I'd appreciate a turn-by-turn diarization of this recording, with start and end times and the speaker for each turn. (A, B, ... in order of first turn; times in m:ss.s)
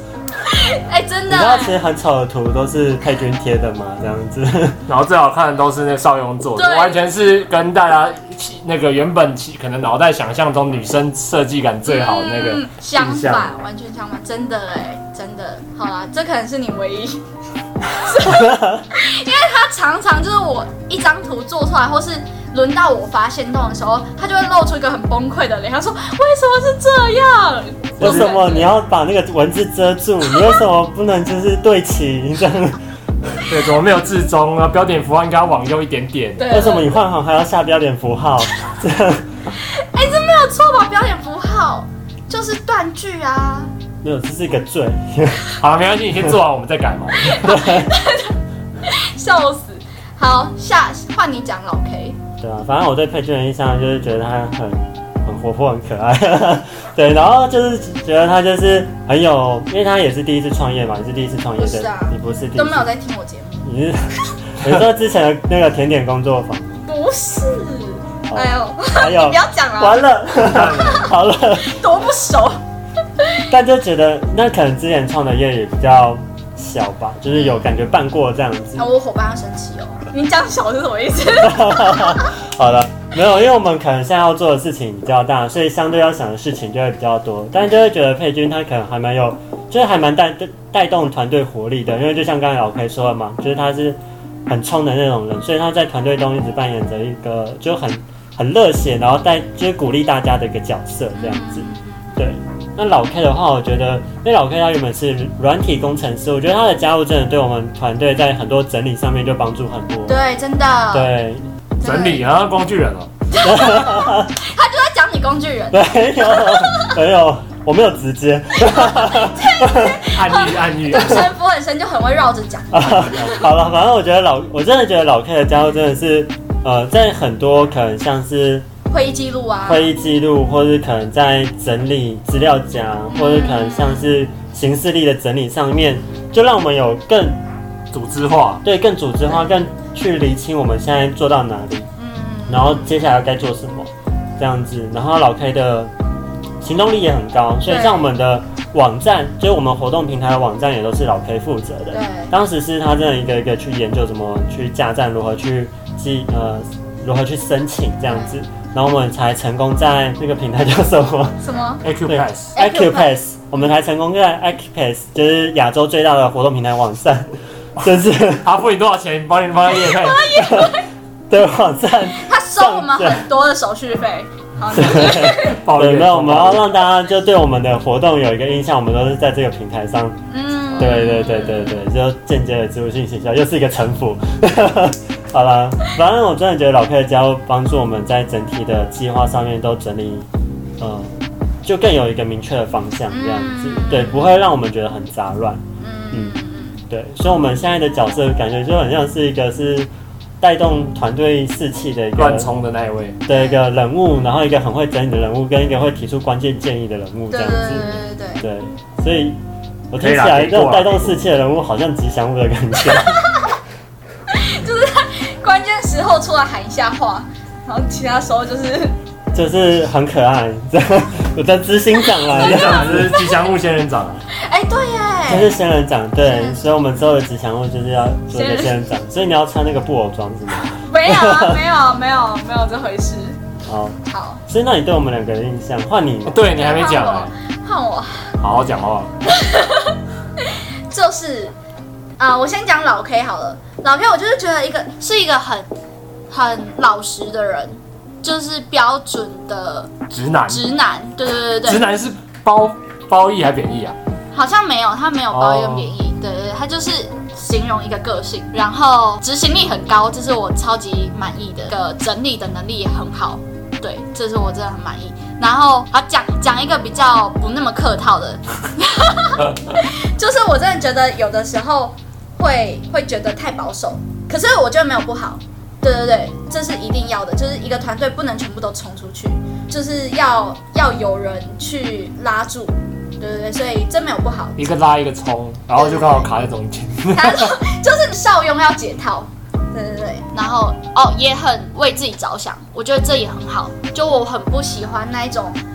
0:00.4-0:01.8 A
0:01.3-0:04.8 B
0:04.9-0:13.5 C
0:06.6-0:07.1 A
0:11.8-0:17.2 A
0:17.8-0:28.7 A
0:18.2-0:18.8 B
0:28.0-0:32.8 B
0:33.4-0:36.5 C
0:36.4-0:37.0 A
0:36.5-0:39.2 B
0:39.5-0:43.7 A
0:44.0-0:45.4 B
0:45.6-0:47.6 C
0:47.2-0:52.2 A
0:47.3-0:47.9 B
0:52.4-1:02.9 B
1:01.6-1:03.7 A
1:03.6-1:06.8 B
1:06.8-1:10.0 A
1:08.3-1:11.8 B
1:10.4-1:11.0 C
1:10.8-1:12.6 A
1:13.5-1:18.9 B
1:17.3-1:17.7 A
1:18.8-1:22.3 A
1:21.4-1:41.6 B
1:41.2-1:42.2 A
1:42.2-1:50.2 B
1:50.1-1:51.1 A
1:50.9-1:51.5 B
1:51.8-1:52.2 A
1:51.8-1:53.1 C
1:53.3-1:57.0 A
1:53.4-1:54.3 B
1:55.7-2:00.0 B
1:58.6-2:03.4 A
2:00.1-2:01.3 C
2:02.7-2:08.7 B
2:08.9-2:09.9 A
2:09.6-2:17.4 B
2:13.1-2:14.1 A
2:17.9-2:18.6 C
2:18.6-2:21.9 B
2:22.0-2:22.9 A
2:22.5-2:25.9 B
2:26.6-2:41.5 B
2:27.6-2:28.1 A
2:31.9-2:32.3 A
2:38.1-2:38.4 A
2:41.4-2:41.8 A
2:41.8-2:42.6 C
2:42.0-2:48.5 B
2:42.5-2:43.1 A
2:48.4-2:50.4 C
2:49.7-2:50.8 A
2:50.3-2:53.2 B
2:52.2-2:55.6 A
2:54.7-3:00.2 B
2:54.7-2:56.7 C
3:00.3-3:01.8 A
3:00.7-3:10.3 B
3:10.8-3:16.3 B
3:13.1-3:14.3 A
3:15.8-3:16.8 A
3:16.9-3:19.9 B
3:20.4-3:22.5 B
3:22.2-3:23.2 C
3:23.2-3:29.4 B
3:23.3-3:23.6 A
3:27.3-3:28.4 A
3:29.9-3:33.2 B
3:30.0-3:31.2 C
3:33.1-3:33.4 A
3:34.3-3:38.9 A
3:39.3-3:43.2 B
3:42.3-3:44.2 C
3:42.8-3:43.4 A
3:44.3-3:45.5 A
3:45.3-3:51.6 B
3:46.2-3:46.7 A
3:48.3-3:48.8 A
3:50.8-3:53.4 A
3:53.6-3:56.4 B
3:54.1-3:54.4 A
3:56.2-3:57.3 C
3:56.5-3:58.4 A
3:58.4-3:59.1 C
3:59.2-4:01.5 A
4:02.2-4:05.7 A
4:06.3-4:11.8 A
4:10.1-4:10.7 C
4:11.6-4:14.0 C
4:14.3-4:44.7 A
4:15.3-4:15.9 C
4:44.6-4:47.5 C
4:45.8-4:46.3 A
4:47.1-4:55.6 A